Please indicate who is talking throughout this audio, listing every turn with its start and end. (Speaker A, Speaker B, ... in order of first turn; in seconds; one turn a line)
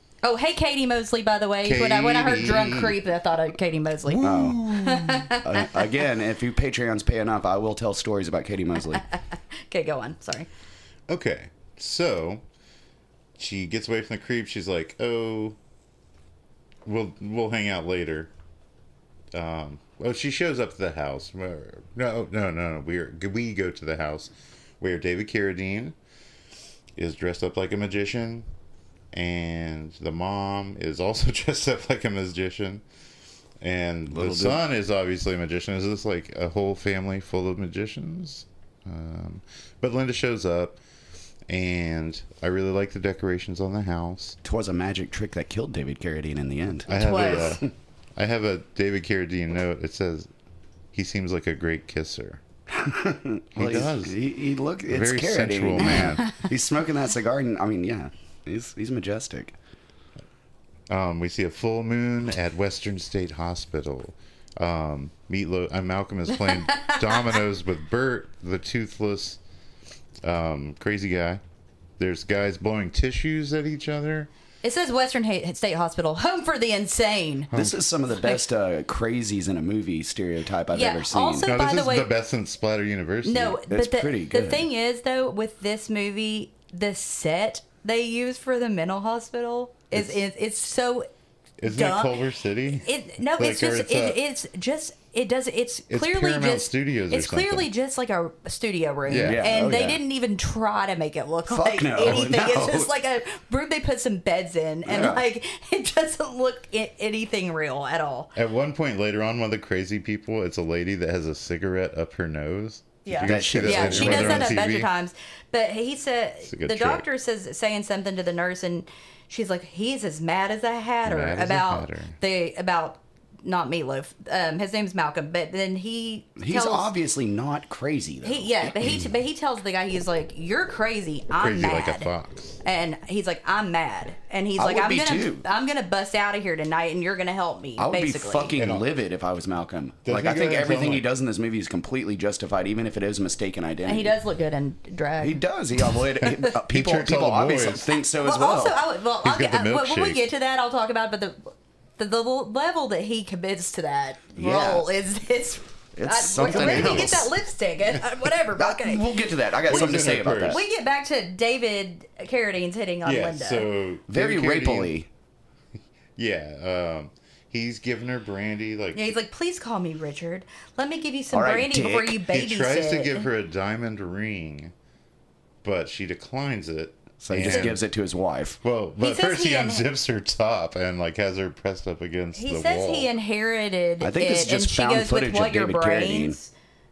Speaker A: 0.2-5.8
Speaker B: 1.6-3.0
Speaker B: 4.0-5.3
Speaker C: 4.2-4.6
Speaker C: 5.4-9.0
Speaker A: 9.7-10.5
Speaker B: 11.1-12.4
Speaker B: 13.4-15.6
Speaker B: 16.9-18.3
Speaker B: 19.3-25.9
Speaker B: 26.9-28.5
Speaker B: 29.1-32.8
Speaker B: 33.6-40.8
Speaker C: 34.1-34.6
Speaker B: 41.5-44.4
Speaker C: 44.4-47.7
Speaker B: 46.9-50.3
Speaker A: 46.9-47.6
Speaker B: 50.9-52.4
Speaker C: 52.7-59.5
Speaker B: 53.5-54.2
Speaker B: 54.9-56.4
Speaker B: 60.9-69.4
Speaker A: 66.5-67.4
Speaker B: 70.2-71.4
Speaker B: 72.0-74.3
Speaker A: 74.6-77.5
Speaker C: 77.5-81.5
Speaker A: 80.7-82.1
Speaker B: 81.5-83.6
Speaker A: 83.2-91.1
Speaker C: 83.7-84.7
Speaker B: 91.6-94.2
Speaker A: 91.7-92.2
Speaker A: 92.7-108.3
Speaker B: 95.9-97.7
Speaker B: 99.1-99.4
Speaker C: 99.2-100.0
Speaker C: 101.5-102.9
Speaker C: 104.8-105.2
Speaker B: 108.3-114.9
Speaker A: 113.0-126.9
Speaker C: 113.2-114.6
Speaker B: 116.5-117.0
Speaker B: 121.0-122.2
Speaker C: 126.4-129.0
Speaker A: 128.2-132.1
Speaker B: 131.4-132.6
Speaker A: 132.6-138.5
Speaker C: 134.6-135.4
Speaker C: 137.8-144.1
Speaker B: 138.6-138.9
Speaker B: 140.0-141.1
Speaker A: 143.8-146.3
Speaker C: 145.2-148.8
Speaker B: 146.5-147.9
Speaker A: 148.2-159.0
Speaker B: 149.2-150.2
Speaker C: 154.3-154.9
Speaker C: 155.9-157.3
Speaker B: 156.4-157.3
Speaker C: 158.6-160.6
Speaker B: 159.7-160.6
Speaker A: 160.4-163.7
Speaker B: 163.0-164.9
Speaker C: 164.1-165.1
Speaker B: 166.2-169.1
Speaker A: 168.9-173.3
Speaker C: 171.3-172.2
Speaker B: 172.2-174.7
Speaker B: 175.6-177.8
Speaker C: 177.2-178.6
Speaker A: 177.4-177.8
Speaker B: 178.6-183.1
Speaker A: 179.0-179.8
Speaker A: 182.3-186.5
Speaker C: 184.0-186.4